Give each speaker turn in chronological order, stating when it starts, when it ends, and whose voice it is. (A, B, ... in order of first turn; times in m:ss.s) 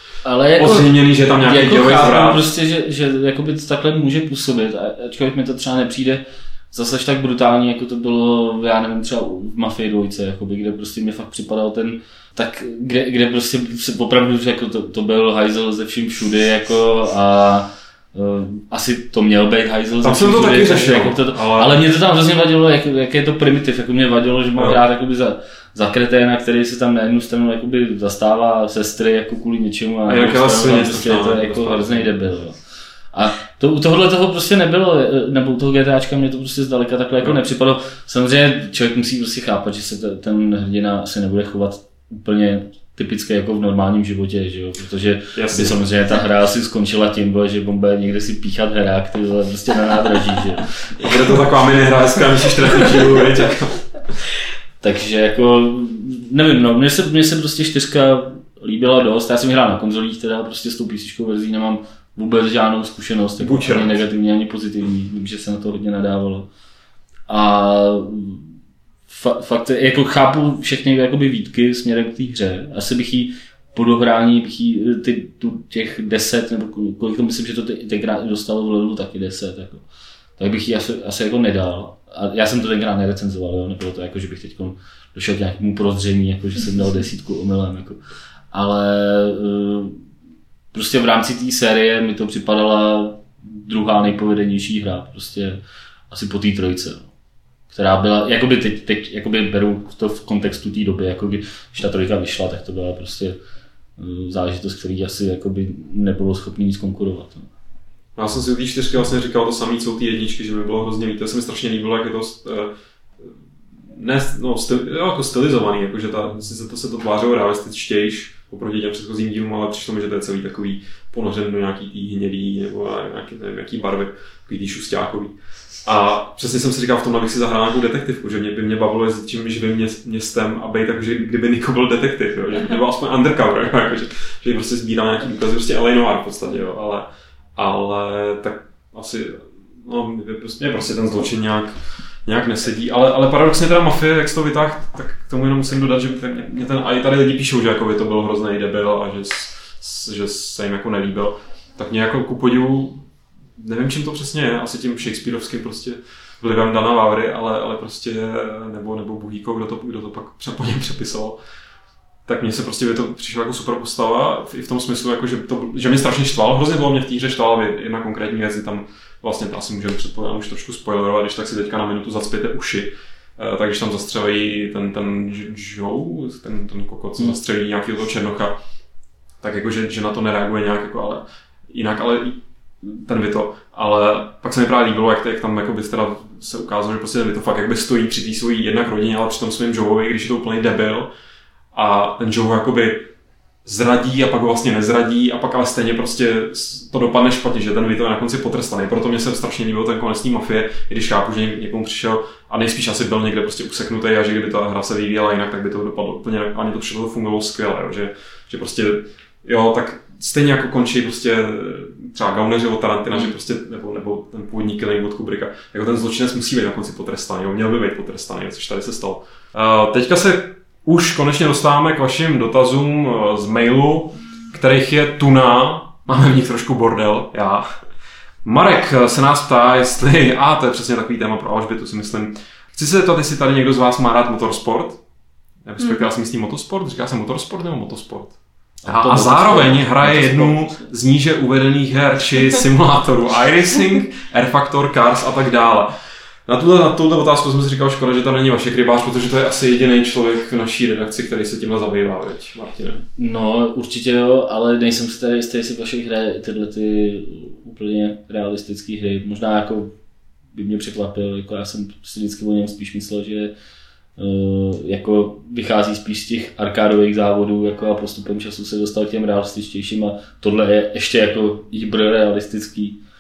0:00.2-0:32.6 A
0:00.6-0:02.5 B
0:20.0-0:21.8 B
0:24.6-0:24.8 B
0:30.1-0:32.1 B
0:33.1-0:51.1 A
0:45.4-0:45.8 B
0:51.0-0:53.8 B
0:54.8-1:06.5 A
1:03.4-1:04.0 B
1:07.3-1:08.4 A
1:09.1-1:19.8 A
1:20.4-1:28.0 A
1:28.5-1:30.0 A
1:30.7-1:35.6 A
1:36.1-1:37.1 A
1:37.7-1:43.4 A
1:44.0-1:47.5 A
1:48.2-1:53.3 B
1:53.9-2:41.4 B
2:42.3-2:58.6 B
2:59.4-3:11.1 B
3:11.7-3:13.1 B
3:13.6-3:47.7 B
3:48.4-3:55.0 B
3:55.6-3:58.4 B
3:58.8-4:00.9 A
3:58.9-4:05.9 B
4:06.5-4:13.0 B
4:13.2-4:20.0 A
4:20.5-4:23.5 A
4:24.2-4:33.0 A